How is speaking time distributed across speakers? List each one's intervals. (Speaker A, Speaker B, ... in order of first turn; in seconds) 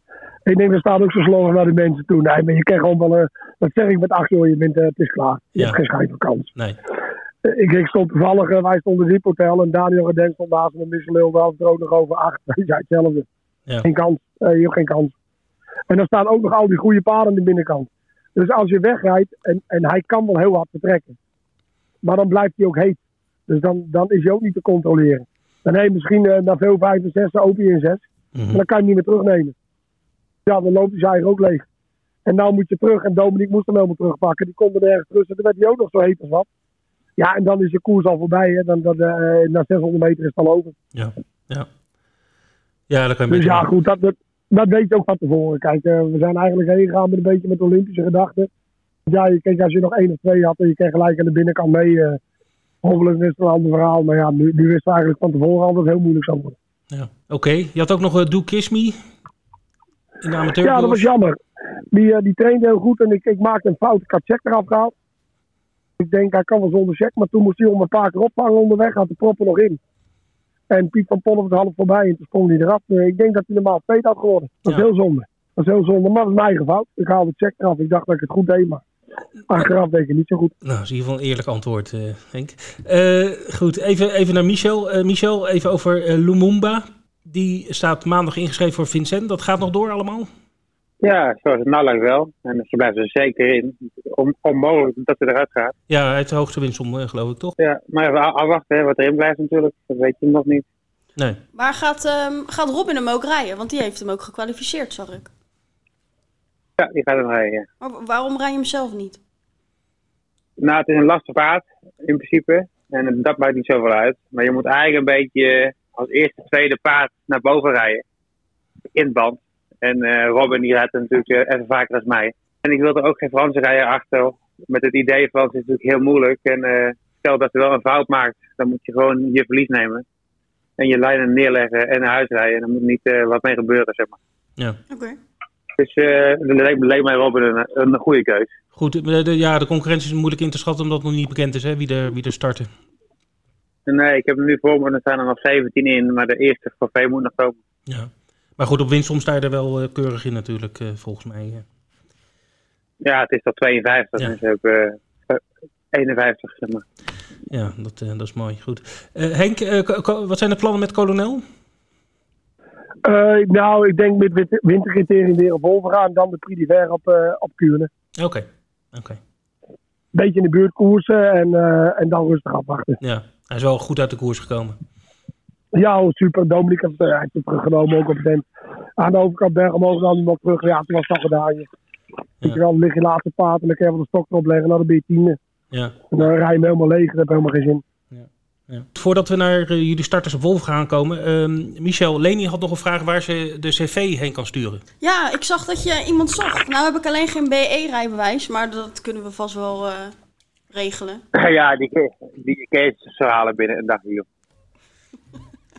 Speaker A: 0.5-6.5, 7.4-13.2, 13.8-15.1, 15.9-21.1, 22.0-29.5, 30.4-31.6, 32.2-36.5, 37.2-40.8, 43.3-48.5, 49.1-52.2, 52.8-56.5, 60.6-61.4, 61.9-64.9, 66.0-69.8, 70.7-78.8, 79.5-80.5, 163.0-167.9, 170.1-173.0, 175.7-178.4, 179.0-181.7, 182.4-185.4, 186.1-187.8
Speaker B: 28.3-28.6, 40.9-41.7, 42.9-43.7, 56.9-59.0, 60.2-61.0, 80.6-90.3, 95.9-97.5, 138.7-142.7, 147.9-151.6, 157.5-161.4, 168.2-169.2, 173.0-174.8, 185.7-186.3, 188.1-194.8
Speaker C: 91.0-95.7, 97.6-100.6, 106.8-107.7, 110.6-118.0, 118.9-130.0, 130.8-134.2, 135.8-138.5, 143.9-147.6, 153.0-155.4, 155.9-156.8, 201.3-204.2
Speaker D: 101.5-105.3, 107.8-109.2, 134.9-135.2, 195.0-200.1, 200.7-201.2